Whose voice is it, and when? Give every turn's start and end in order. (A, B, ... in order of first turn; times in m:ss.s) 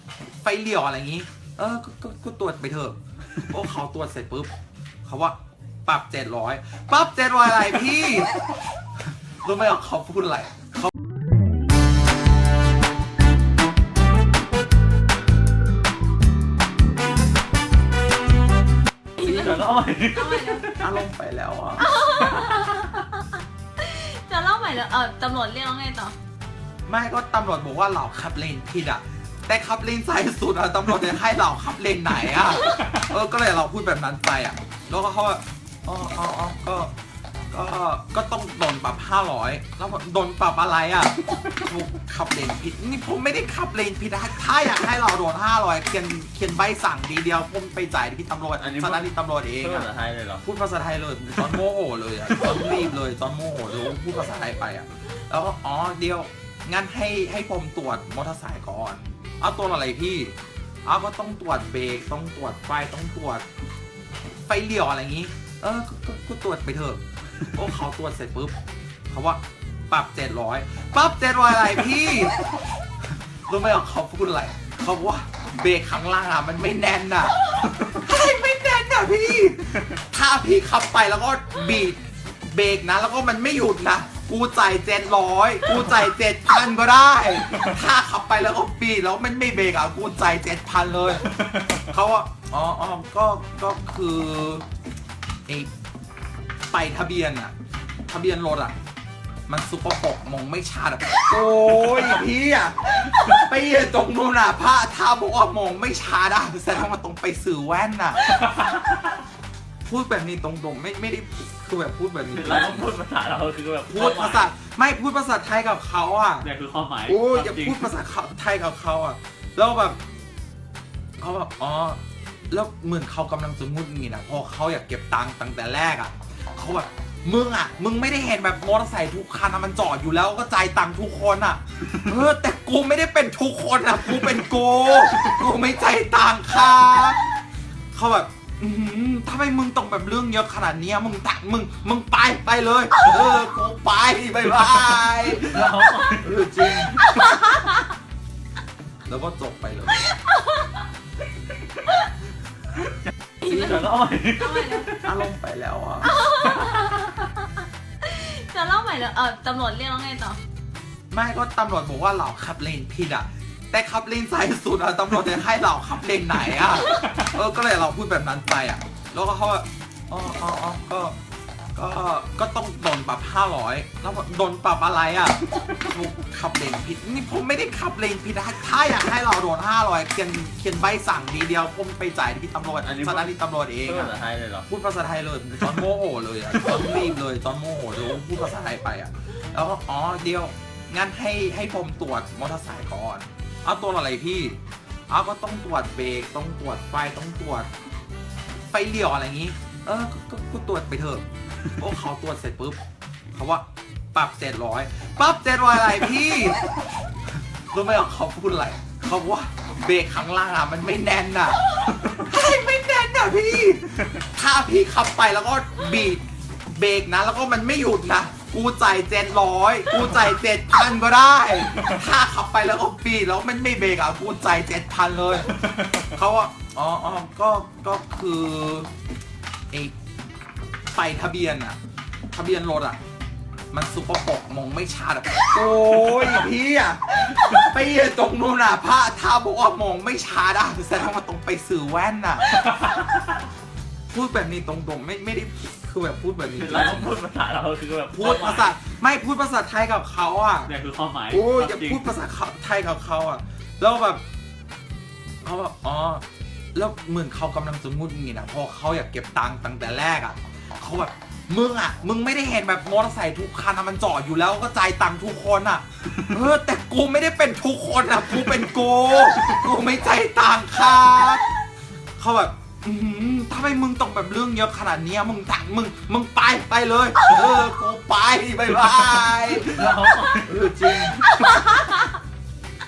0:00.4-0:04.5 A
0:05.0-0:08.4 A
0:09.4-0:10.9 A
0:19.2-0:20.7 B
0:19.2-0:19.6 C
0:20.1-0:20.7 C
0:20.8-0:21.9 A
0:21.8-0:26.1 C
0:26.9-0:36.9 A
0:37.5-0:49.9 A
0:48.6-0:49.1 B
0:49.6-0:50.4 B
0:50.4-1:03.4 A
1:04.5-1:07.0 A
1:07.5-1:08.6 A
1:09.1-1:12.6 A
1:13.5-1:34.6 A
1:36.7-1:37.5 A
1:38.1-1:38.8 A
1:39.5-1:48.3 A
1:48.3-1:49.0 B
1:49.8-1:52.9 A
1:52.3-1:54.5 B
1:53.9-1:56.5 A
1:56.4-1:57.9 B
1:57.1-2:00.0 A
2:01.2-2:17.2 A
2:17.9-2:27.0 A
2:25.4-2:26.3 B
2:27.2-2:27.8 C
2:29.1-2:30.1 A
2:30.0-2:30.8 C
2:33.4-2:34.9 C
2:33.4-2:35.0 B
2:35.0-2:36.2 A
2:36.0-2:40.4 C
2:41.1-2:51.2 A
2:51.8-3:04.1 A
3:02.8-3:04.7 B
3:04.7-3:17.7 A
3:18.7-3:22.8 A
3:23.3-3:26.9 A
3:27.7-3:45.5 A
3:46.1-3:48.9 A
3:51.0-3:51.8 A
3:52.3-3:53.0 A
3:53.7-4:02.5 A
4:02.6-4:03.1 B
4:04.1-4:07.2 A
4:06.6-4:08.8 B
4:08.1-4:10.7 A
4:10.7-4:12.1 B
4:11.3-4:14.2 A
4:15.4-4:16.2 A
4:16.8-4:31.5 A
4:32.2-4:41.3 A
4:39.7-4:40.5 B
4:41.4-4:42.0 C